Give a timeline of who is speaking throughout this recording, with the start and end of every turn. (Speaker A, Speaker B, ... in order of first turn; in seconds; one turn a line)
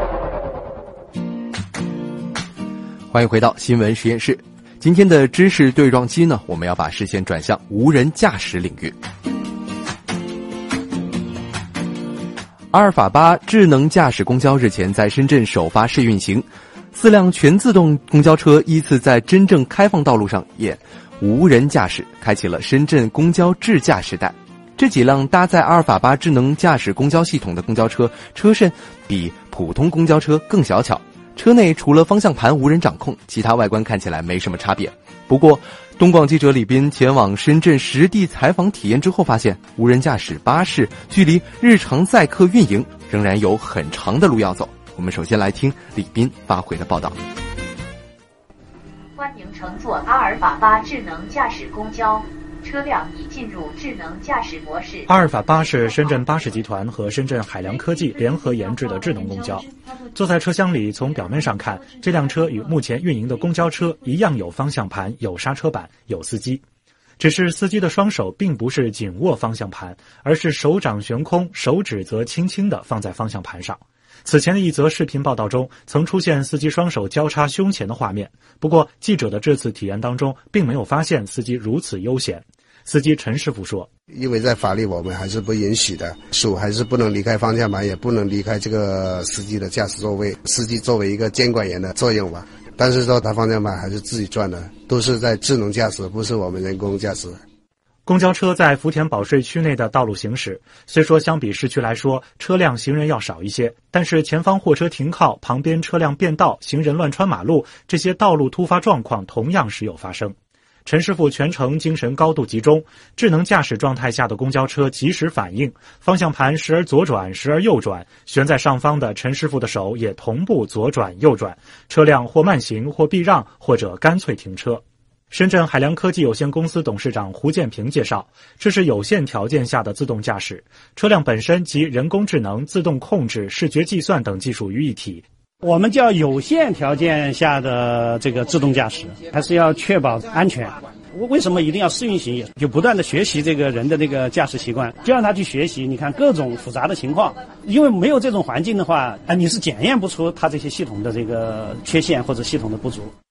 Speaker A: 3.1-8.9
Speaker A: 12.7-47.2
Speaker B: 49.2-55.1
Speaker C: 55.1-66.6
Speaker B: 55.6-56.1
Speaker B: 57.7-60.1
Speaker B: 61.4-62.6
Speaker C: 67.2-83.9
Speaker D: 84.1-97.4
Speaker C: 98.1-135.2
Speaker E: 135.6-153.1